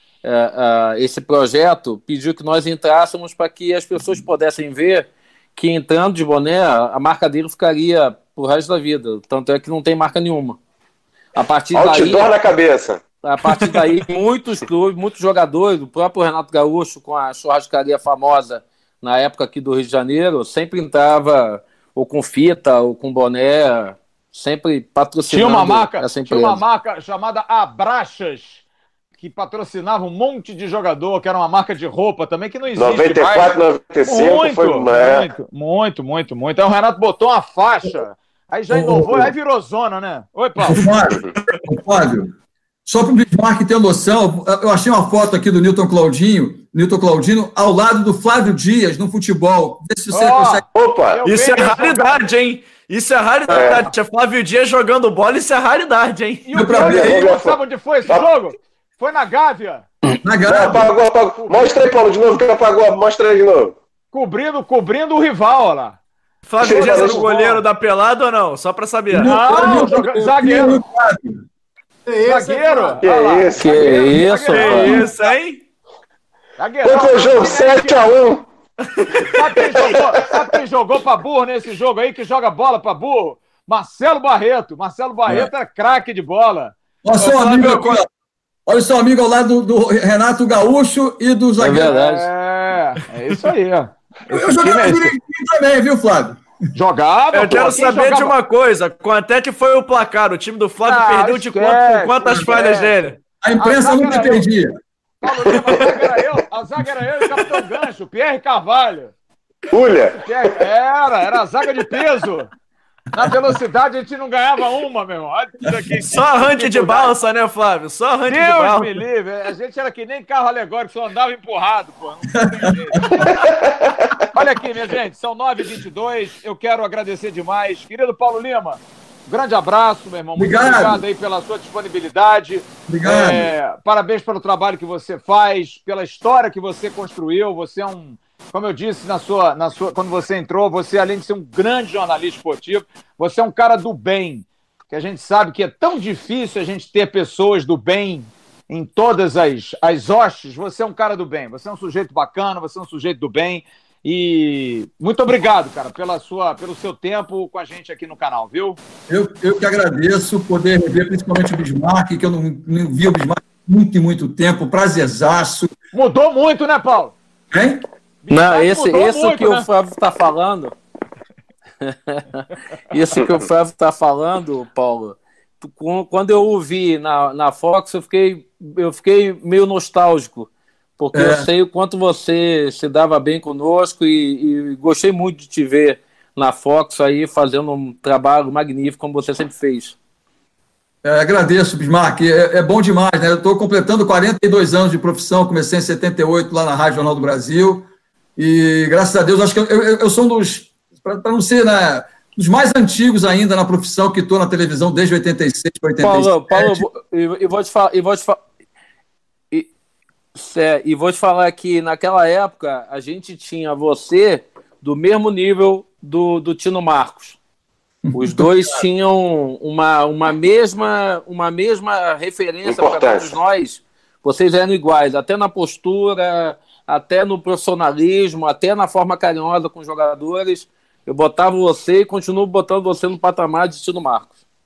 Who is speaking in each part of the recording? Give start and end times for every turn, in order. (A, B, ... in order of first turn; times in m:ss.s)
0:00.2-0:10.6 A
0:11.4-0:12.3 A
0:11.7-0:13.0 B
0:13.2-0:26.6 A
0:25.3-0:28.6 C
0:29.2-0:40.9 C
0:32.8-0:35.3 B
0:38.7-0:39.3 D
0:40.6-0:42.3 D
0:42.8-0:50.6 D
0:50.1-0:52.3 C
0:50.7-0:51.2 B
0:51.2-0:56.5 E
0:53.5-0:53.9 B
0:56.5-0:59.9 C
0:56.5-0:57.2 D
0:56.7-0:58.2 B
1:00.2-1:00.9 D
1:00.4-1:03.7 B
1:01.4-1:01.9 C
1:04.1-1:06.0 C
1:06.5-1:09.4 E
1:06.6-1:07.2 B
1:06.6-1:07.6 C
1:09.1-1:11.4 D
1:09.2-1:10.8 C
1:09.5-1:10.7 F
1:12.0-1:13.0 F
1:12.3-1:15.3 C
1:13.0-1:13.7 B
1:13.6-1:15.1 A
1:14.5-1:15.6 E
1:16.6-1:18.1 C
1:16.8-1:18.4 B
1:19.2-1:26.7 C
1:19.8-1:20.4 B
1:27.0-1:28.1 D
1:27.2-1:28.0 E
1:28.7-1:32.0 D
1:31.6-1:32.3 A
1:31.8-1:35.1 C
1:34.3-1:36.4 D
1:36.7-1:38.3 C
1:37.3-1:43.2 E
1:40.8-1:43.0 C
1:43.4-1:44.8 D
1:43.6-1:44.5 C
1:45.2-1:49.2 C
1:45.3-1:46.2 B
1:49.7-1:50.6 B
1:50.1-1:52.5 C
1:53.1-1:57.1 C
1:55.7-1:56.0 D
1:56.1-1:59.0 E
1:58.3-2:03.3 C
2:02.4-2:03.1 D
2:03.1-2:04.1 B
2:04.3-2:38.8 C
2:10.4-2:11.0 D
2:12.9-2:13.5 D
2:39.1-2:45.7 D
2:45.9-2:47.1 C
2:47.5-2:47.8 D
2:48.2-2:49.7 C
2:48.3-2:50.8 A
2:51.8-3:10.0 A
3:01.1-3:01.5 D
3:11.0-3:26.8 D
3:26.0-3:28.4 A
3:30.3-3:37.4 A
3:38.1-3:38.8 D
3:38.1-3:54.3 A
3:42.6-3:43.3 B